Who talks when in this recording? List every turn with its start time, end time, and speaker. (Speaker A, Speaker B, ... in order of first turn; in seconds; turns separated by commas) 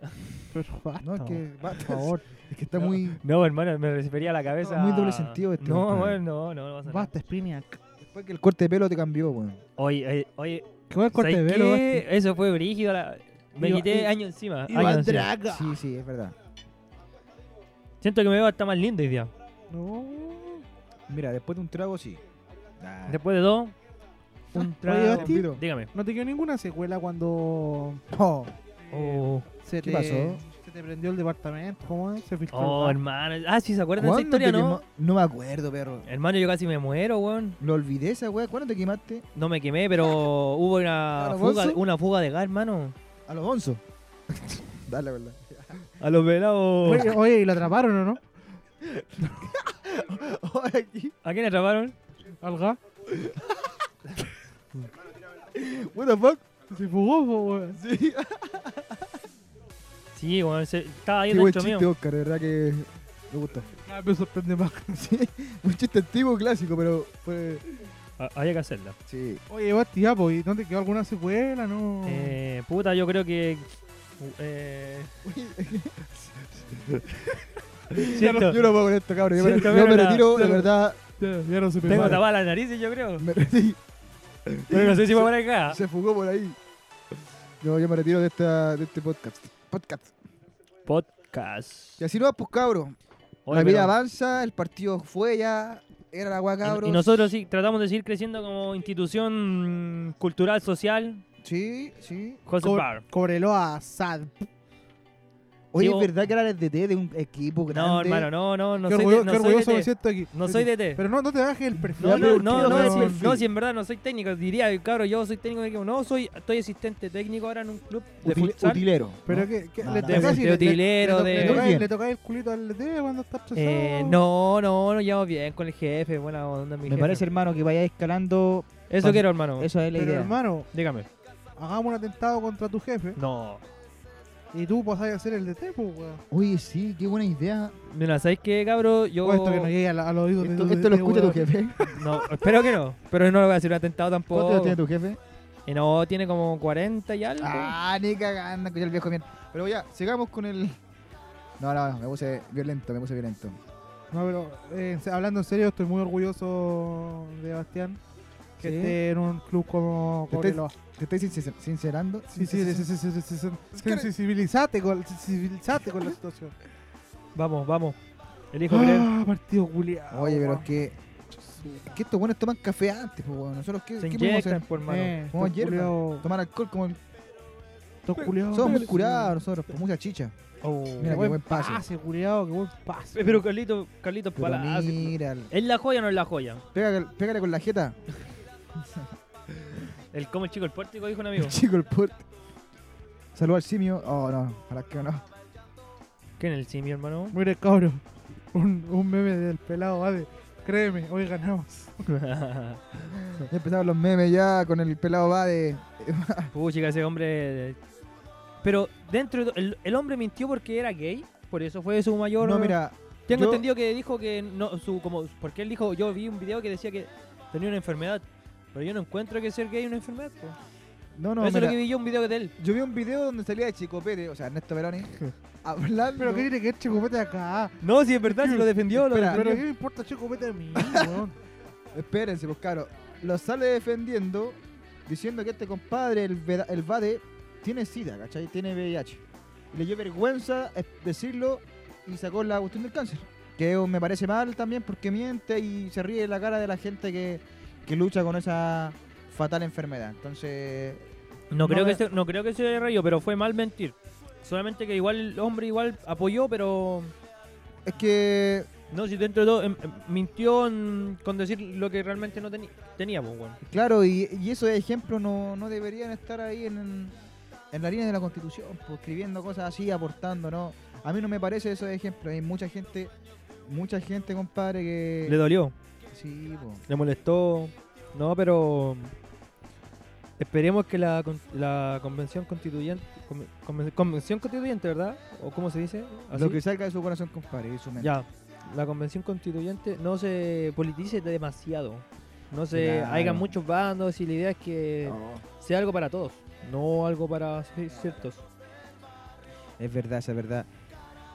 Speaker A: 0.5-2.2, Speaker B: 1.0-3.2, Speaker C: 3.2-7.1, Speaker B: 4.5-6.2, Speaker A: 6.8-7.8, Speaker B: 8.0-9.6, Speaker C: 9.8-15.3, Speaker A: 10.9-12.0, Speaker A: 13.6-14.1, Speaker A: 14.7-15.8, Speaker B: 15.4-16.3, Speaker C: 18.0-19.3, Speaker A: 19.7-20.6, Speaker B: 21.1-22.2, Speaker B: 22.8-23.2, Speaker C: 23.1-23.7, Speaker C: 24.5-25.9, Speaker A: 24.6-28.1, Speaker B: 25.1-25.6, Speaker B: 28.1-28.5, Speaker A: 28.8-33.0, Speaker C: 28.9-29.4, Speaker B: 29.8-30.4, Speaker C: 32.5-34.8, Speaker B: 34.0-36.0, Speaker C: 36.0-37.6, Speaker B: 37.6-39.2, Speaker C: 39.3-42.9, Speaker B: 41.1-41.8, Speaker B: 43.3-45.9, Speaker C: 46.0-47.1, Speaker A: 46.8-48.2, Speaker B: 48.8-51.1, Speaker C: 51.2-51.9, Speaker A: 52.4-52.8, Speaker B: 53.1-53.7, Speaker B: 55.5-56.4, Speaker A: 56.7-57.8, Speaker B: 57.7-59.1, Speaker C: 60.1-61.9, Speaker B: 61.3-63.7, Speaker A: 63.8-65.0, Speaker B: 64.9-67.7, Speaker C: 68.2-69.0, Speaker B: 69.1-69.4, Speaker A: 69.5-72.4, Speaker C: 72.0-73.7, Speaker C: 74.2-75.1, Speaker B: 75.2-81.0, Speaker A: 78.0-78.6, Speaker C: 78.1-78.6, Speaker C: 79.3-80.3, Speaker A: 80.3-82.2, Speaker B: 81.8-82.2, Speaker C: 81.8-83.3, Speaker B: 83.2-83.8, Speaker B: 84.5-86.6, Speaker C: 84.7-85.8, Speaker B: 87.6-90.1, Speaker C: 90.8-92.0, Speaker B: 92.0-93.0, Speaker C: 93.5-93.9, Speaker B: 93.5-97.2, Speaker C: 96.6-101.2, Speaker B: 101.4-102.4, Speaker C: 102.5-103.0, Speaker A: 102.6-104.5, Speaker B: 105.7-108.3, Speaker C: 105.8-106.1, Speaker C: 107.7-111.0, Speaker A: 108.8-113.3, Speaker B: 111.7-113.4, Speaker C: 112.0-118.8, Speaker B: 118.2-120.7, Speaker A: 119.2-124.2, Speaker C: 120.0-121.7, Speaker B: 121.2-121.9, Speaker C: 123.5-127.2, Speaker B: 126.8-130.4, Speaker C: 128.9-129.7, Speaker A: 129.9-130.7, Speaker C: 130.7-131.1, Speaker A: 131.6-133.2, Speaker C: 133.2-133.6, Speaker A: 134.5-136.2, Speaker B: 136.3-137.7, Speaker C: 137.9-139.7, Speaker A: 139.2-141.5, Speaker B: 140.4-142.0, Speaker C: 141.9-144.8, Speaker B: 144.3-145.2, Speaker C: 145.7-147.7, Speaker B: 147.4-150.8, Speaker B: 151.6-153.6, Speaker A: 154.1-158.0, Speaker B: 158.6-159.0, Speaker A: 158.6-160.7, Speaker B: 160.3-162.9, Speaker A: 162.3-166.5, Speaker B: 163.7-164.1, Speaker C: 167.3-168.0, Speaker C: 168.5-169.1, Speaker A: 168.7-170.7, Speaker B: 170.1-171.0, Speaker A: 171.4-171.9, Speaker B: 171.8-174.7, Speaker C: 174.0-175.1, Speaker A: 174.9-176.3, Speaker B: 175.3-177.0, Speaker A: 178.1-179.3, Speaker C: 178.2-178.8, Speaker B: 178.5-180.3, Speaker C: 180.6-181.2, Speaker B: 181.0-181.8, Speaker A: 181.0-183.4, Speaker C: 183.1-186.6, Speaker B: 184.3-185.5, Speaker B: 186.7-188.0, Speaker C: 190.1-191.6, Speaker B: 191.3-192.2, Speaker B: 193.3-195.2, Speaker C: 196.4-197.4, Speaker A: 197.3-201.9, Speaker C: 202.1-202.8, Speaker B: 203.4-206.5, Speaker C: 206.5-207.8, Speaker C: 208.6-212.8, Speaker B: 212.4-213.7, Speaker C: 213.3-220.6, Speaker B: 221.1-221.8, Speaker C: 221.4-222.5, Speaker B: 222.6-226.5, Speaker A: 226.2-228.7, Speaker C: 227.8-229.6, Speaker B: 228.9-229.6, Speaker A: 229.3-231.4, Speaker B: 230.7-231.2, Speaker B: 231.9-251.1, Speaker C: 251.5-257.1, Speaker B: 251.6-252.0, Speaker B: 257.8-258.7, Speaker C: 258.9-263.6, Speaker B: 263.6-267.2, Speaker B: 267.7-273.1, Speaker B: 273.6-275.4, Speaker C: 275.2-275.7, Speaker B: 276.1-276.8, Speaker C: 276.9-279.1, Speaker C: 280.4-286.6, Speaker B: 286.3-288.2, Speaker C: 288.0-298.4, Speaker B: 292.7-293.5, Speaker B: 295.0-295.4, Speaker B: 297.9-298.2, Speaker B: 299.8-300.7